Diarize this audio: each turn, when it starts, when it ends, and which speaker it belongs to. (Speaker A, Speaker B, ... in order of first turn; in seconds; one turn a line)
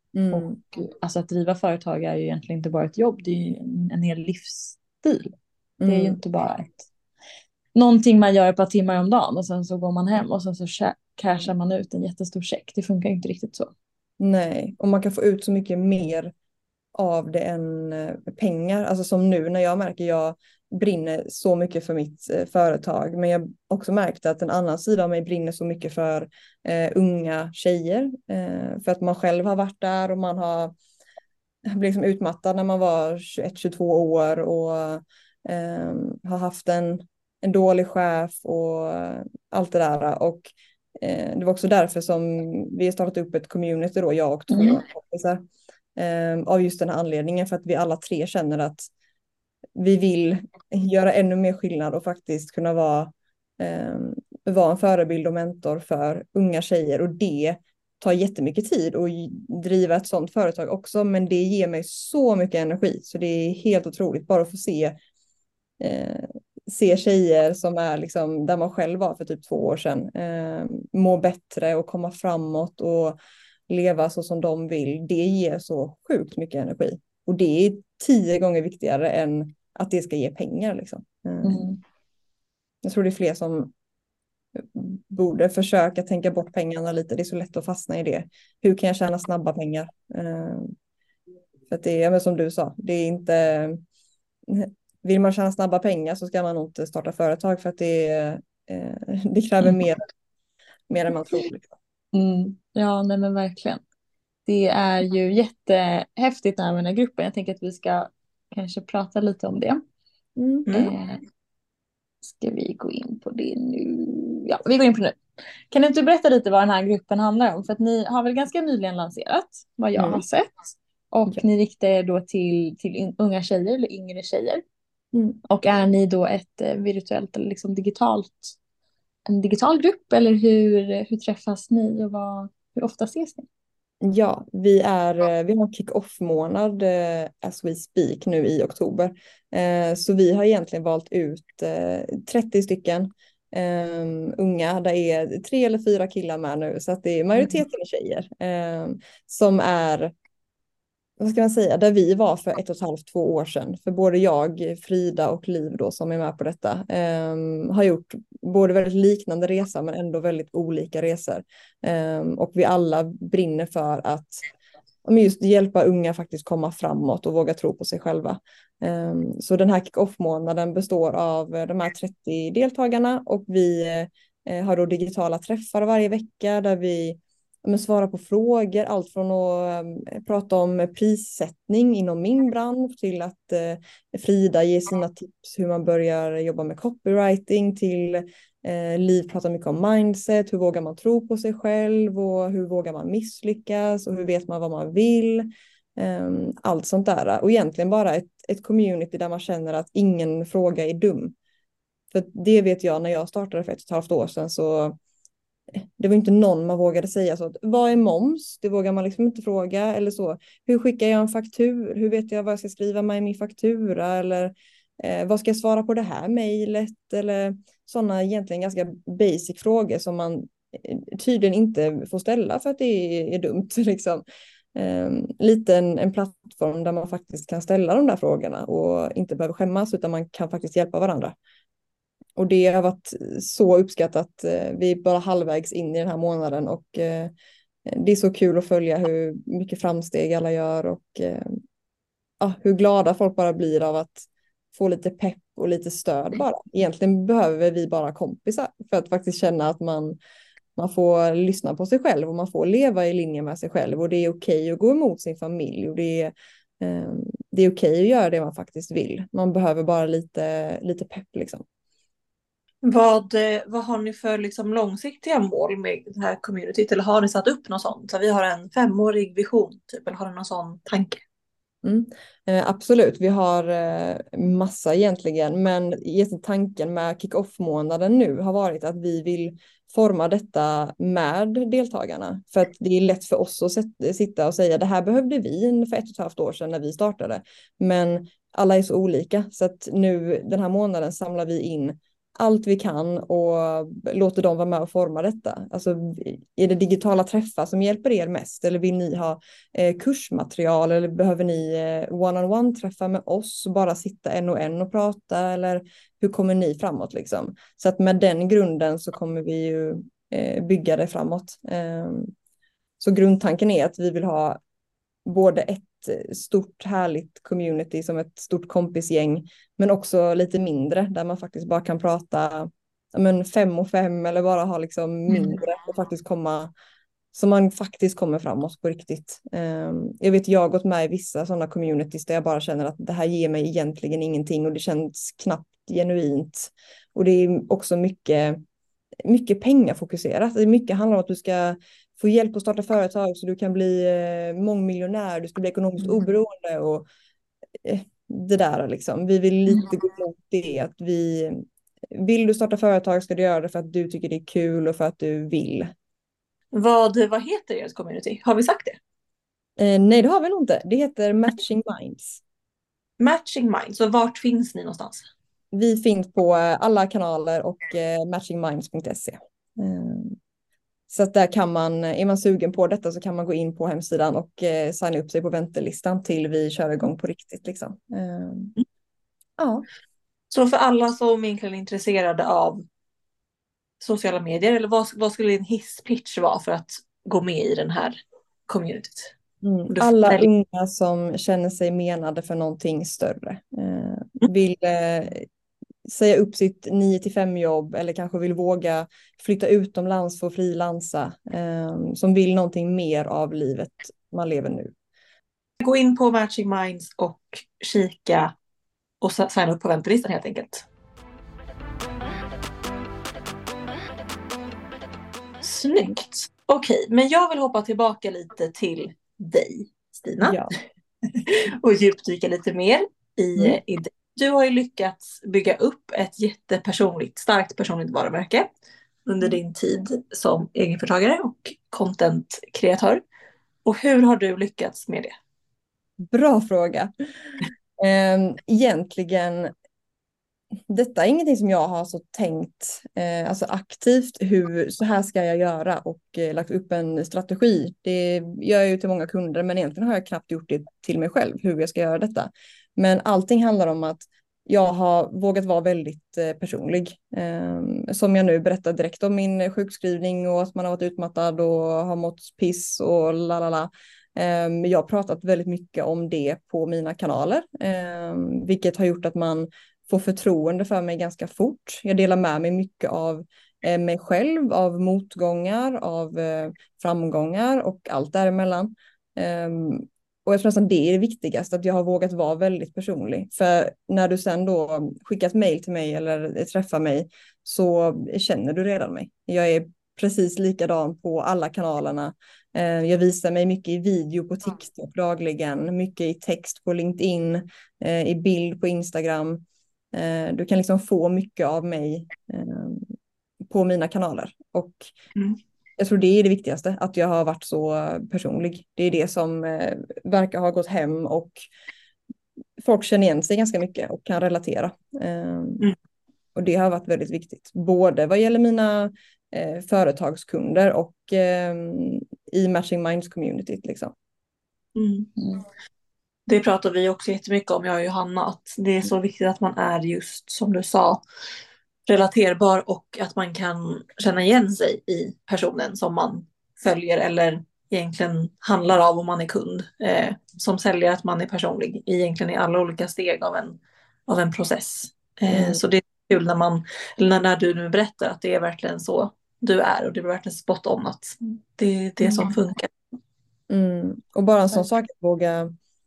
Speaker A: 0.1-0.6
Speaker B: 0.3-5.3
Speaker A: 5.8-6.2
Speaker B: 5.8-6.9
Speaker B: 7.7-13.7
Speaker A: 14.2-16.3
Speaker A: 16.9-30.7
Speaker A: 31.7-45.4
Speaker B: 44.5-44.8
Speaker A: 46.0-48.9
Speaker A: 49.8-65.0
Speaker A: 65.8-73.2
Speaker A: 73.7-81.6
Speaker B: 81.4-81.8
Speaker A: 82.8-83.7
Speaker A: 84.5-90.7
Speaker A: 91.7-93.8
Speaker A: 94.5-100.0
Speaker A: 100.9-101.7
Speaker B: 102.1-103.8
Speaker B: 104.5-109.8
Speaker A: 110.4-110.7
Speaker B: 110.7-111.2
Speaker B: 112.2-115.2
Speaker B: 115.7-124.6
Speaker A: 120.0-120.2
Speaker A: 125.1-125.4
Speaker B: 125.4-128.6
Speaker B: 129.3-133.4
Speaker A: 134.0-150.1
Speaker A: 151.2-164.4
Speaker A: 165.0-201.3
Speaker A: 202.1-205.0
Speaker A: 205.8-224.2
Speaker A: 224.7-231.3
Speaker A: 232.3-237.3
Speaker A: 237.8-241.6
Speaker A: 242.4-250.2
Speaker A: 250.8-261.6
Speaker C: 262.8-271.2
Speaker A: 271.8-312.3
Speaker A: 313.0-314.6
Speaker A: 315.2-326.7
Speaker A: 327.3-338.6
Speaker A: 339.2-347.0
Speaker A: 347.8-355.9
Speaker C: 356.7-359.0
Speaker A: 359.8-362.4
Speaker C: 363.2-365.3
Speaker A: 365.7-370.4
Speaker A: 371.1-378.7
Speaker A: 379.6-379.8
Speaker C: 380.5-382.8
Speaker C: 384.0-388.2
Speaker C: 388.7-389.3
Speaker A: 389.6-395.5
Speaker C: 389.9-390.5
Speaker A: 396.1-404.9
Speaker C: 405.8-408.5
Speaker C: 409.2-410.9
Speaker C: 415.6-420.6
Speaker A: 420.4-420.7
Speaker C: 421.3-428.7
Speaker C: 429.2-433.2
Speaker C: 433.8-435.3
Speaker A: 436.2-439.7
Speaker A: 440.9-499.6
Speaker A: 500.1-503.1
Speaker A: 503.7-505.1
Speaker A: 506.0-511.6
Speaker A: 512.8-515.9
Speaker A: 516.5-524.1
Speaker C: 524.9-525.3
Speaker B: 525.4-525.6
Speaker C: 526.5-531.2
Speaker C: 532.0-552.9
Speaker A: 545.5-545.8
Speaker A: 553.7-555.7